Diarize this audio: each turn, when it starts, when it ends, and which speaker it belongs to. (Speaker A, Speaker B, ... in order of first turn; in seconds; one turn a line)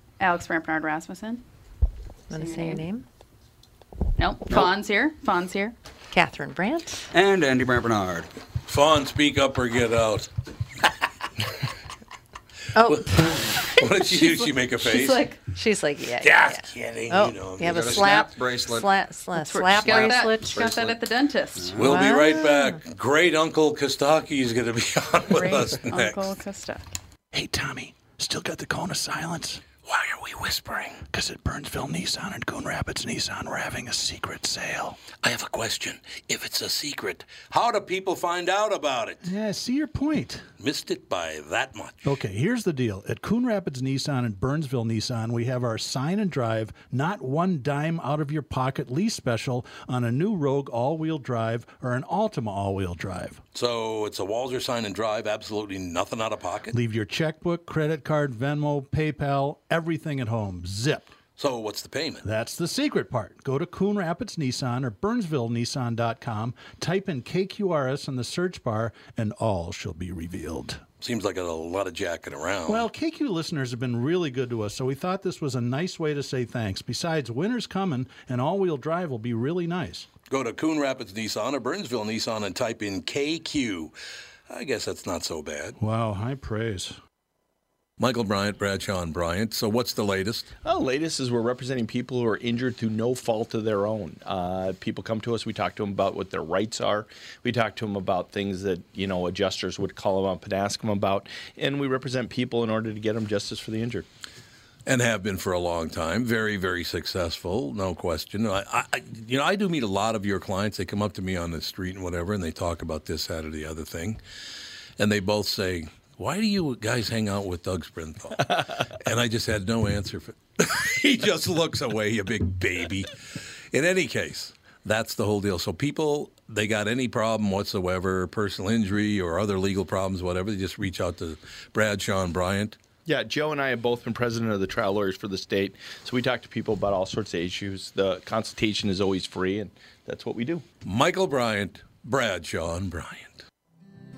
Speaker A: 0.2-1.4
Speaker B: 2.3-3.0
Speaker A: 2.3-2.9
Speaker A: 4.2-5.8
Speaker B: 6.1-7.1
Speaker C: 7.1-8.3
Speaker D: 8.7-10.3
Speaker B: 12.8-13.8
Speaker D: 12.8-15.2
Speaker A: 14.8-15.4
Speaker B: 15.5-20.7
Speaker D: 16.2-18.0
Speaker C: 17.6-18.9
Speaker A: 18.0-18.3
Speaker A: 19.3-21.8
Speaker C: 19.8-20.9
Speaker C: 21.6-22.0
Speaker D: 21.8-26.2
Speaker B: 21.8-22.8
Speaker A: 25.3-26.9
Speaker E: 27.3-29.6
Speaker D: 29.9-31.0
Speaker E: 31.1-35.0
Speaker D: 35.2-39.3
Speaker E: 39.2-40.4
Speaker D: 40.6-42.1
Speaker E: 42.0-53.4
Speaker D: 53.5-56.8
Speaker E: 56.7-61.1
Speaker D: 61.4-62.2
Speaker E: 62.2-70.8
Speaker D: 71.0-72.9
Speaker E: 72.7-80.1
Speaker D: 80.3-83.9
Speaker D: 84.5-85.8
Speaker E: 85.8-87.0
Speaker D: 88.0-90.5
Speaker F: 90.6-104.0
Speaker D: 104.8-114.2
Speaker D: 115.0-123.1
Speaker D: 123.7-132.8
Speaker F: 133.1-140.6
Speaker D: 140.8-143.4